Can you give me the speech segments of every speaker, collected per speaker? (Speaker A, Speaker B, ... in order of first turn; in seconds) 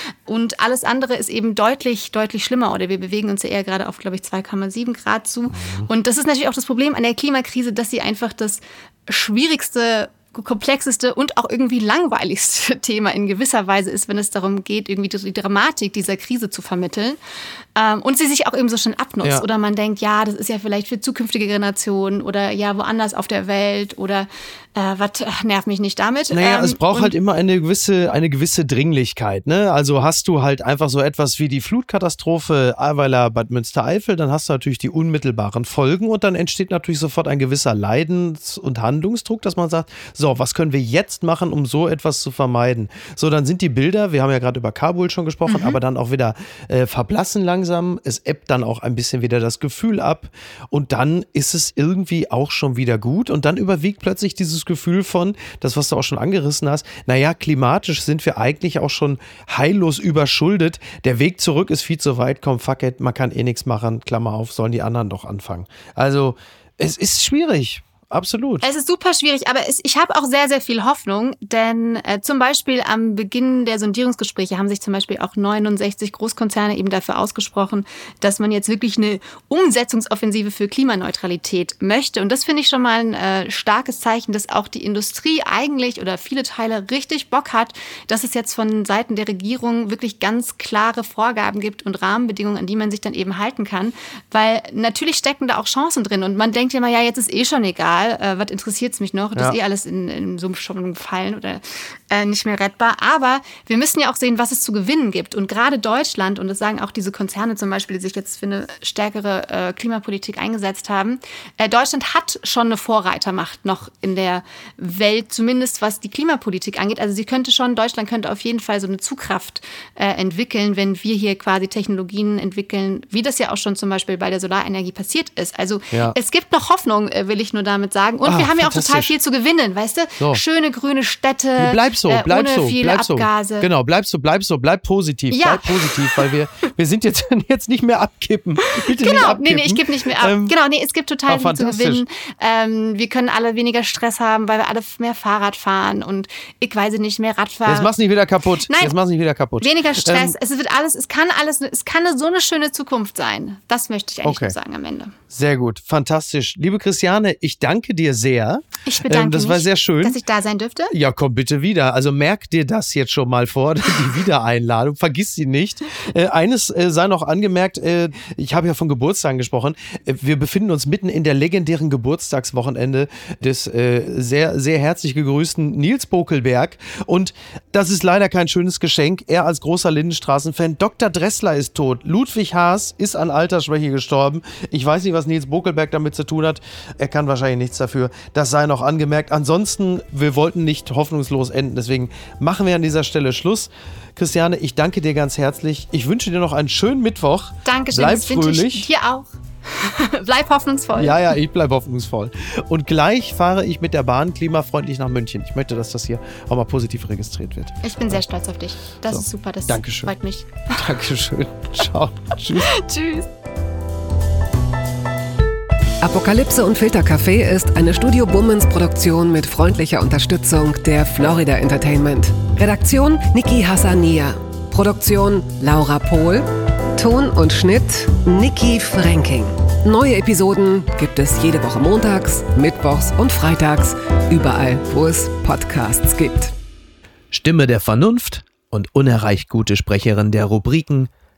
Speaker A: 0.3-17.2, 17.8-27.1, 45.5-45.8, 68.6-133.7, 135.3-136.3, 138.6-147.9, 148.7-148.9, 149.6-155.1, 158.8-160.9, 197.7-201.3, 207.8-210.9, 212.5-213.3
Speaker B: 5.6-5.8, 26.3-68.7, 128.2-129.1, 131.6-140.6, 141.3-142.0, 147.7-150.3, 154.2-154.6, 155.3-160.2, 160.9-198.9, 200.9-208.2, 209.1-210.1, 210.7-212.7, 237.3-241.1
Speaker C: 216.0-236.5